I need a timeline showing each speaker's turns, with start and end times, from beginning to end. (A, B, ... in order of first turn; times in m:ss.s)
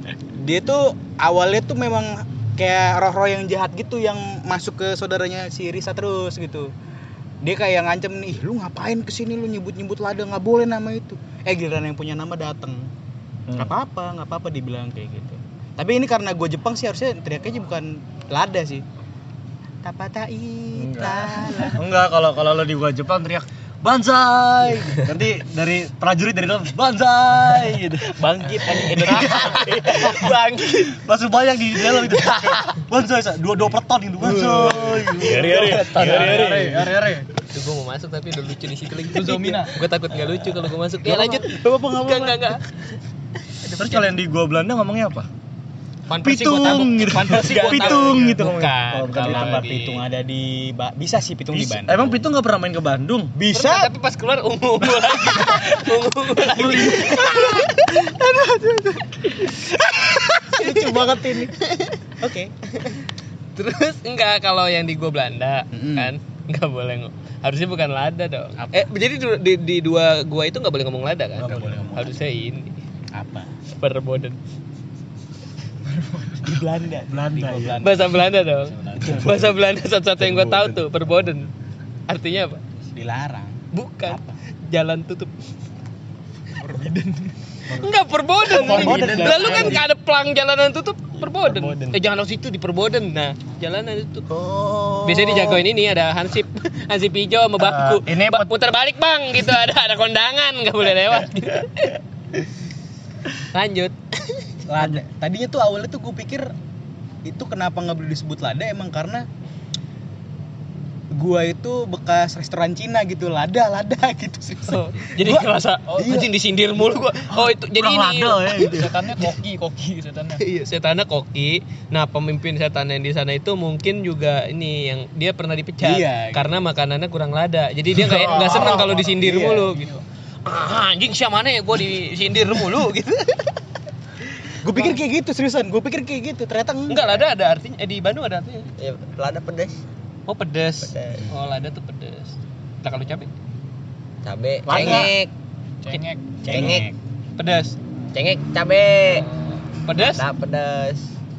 0:00.4-0:06.7 A
0:07.4-0:12.9 A
0:13.5-0:13.7 B
0:13.5-0:18.8 A
0:19.8-0:21.8 A
0:20.7-0:37.0 B
0:28.2-0:30.4 A
0:28.9-0:30.9 C
0:34.2-0:37.0 A
0:35.2-0:37.2 D
0:35.9-0:36.5 C
0:37.5-0:42.6 C
0:39.1-0:39.8 D
0:41.0-0:42.6 A
0:43.7-0:44.1 C
0:43.7-0:45.3 B
0:46.1-0:50.0 C
0:46.2-0:49.7 B
0:46.6-0:52.2 A
0:51.5-0:53.3 B
0:53.3-0:53.9 A
0:53.5-0:58.0 C
0:55.0-0:55.6 A
0:56.4-0:57.5 B
0:56.5-0:57.7 A
0:58.2-0:58.9 A
1:00.5-1:01.5 A
1:00.6-1:01.5 B
1:02.2-1:02.5 A
1:03.6-1:12.8 C
1:05.7-1:06.1 A
1:08.6-1:08.8 A
1:11.4-1:12.1 A
1:11.4-1:12.0 B
1:13.1-1:13.5 A
1:13.7-1:14.4 C
1:15.9-1:16.4 D
1:16.4-1:18.2 A
1:17.1-1:17.9 B
1:17.8-1:21.5 C
1:19.0-1:19.6 A
1:20.2-1:20.8 A
1:22.1-1:22.6 C
1:22.9-1:24.3 A
1:23.7-1:25.3 C
1:26.6-1:27.2 C
1:27.7-1:34.3 C
1:28.4-1:29.8 B
1:28.5-1:29.8 A
1:31.2-1:32.0 E
1:34.3-1:35.6 E
1:35.0-1:42.0 C
1:37.6-1:38.5 B
1:43.4-1:44.6 C
1:44.7-1:46.5 A
1:47.2-1:49.2 A
1:51.1-1:56.3 A
1:54.6-1:58.5 C
1:57.4-1:59.4 B
1:58.5-2:00.4 D
2:00.5-2:09.9 C
2:05.8-2:06.5 A
2:08.0-2:08.8 B
2:08.1-2:10.0 D
2:08.5-2:09.7 A
2:10.4-2:13.6 C
2:14.6-2:17.2 A
2:16.9-2:18.7 C
2:18.8-2:19.8 E
2:20.3-2:23.3 C
2:20.9-2:21.2 E
2:21.1-2:21.4 A
2:24.2-2:25.3 E
2:24.6-2:25.1 B
2:25.8-2:26.2 D
2:26.4-2:27.0 A
2:26.5-2:26.9 E
2:27.4-2:27.8 C
2:28.1-2:29.3 E
2:29.8-2:30.2 C
2:30.0-2:31.1 E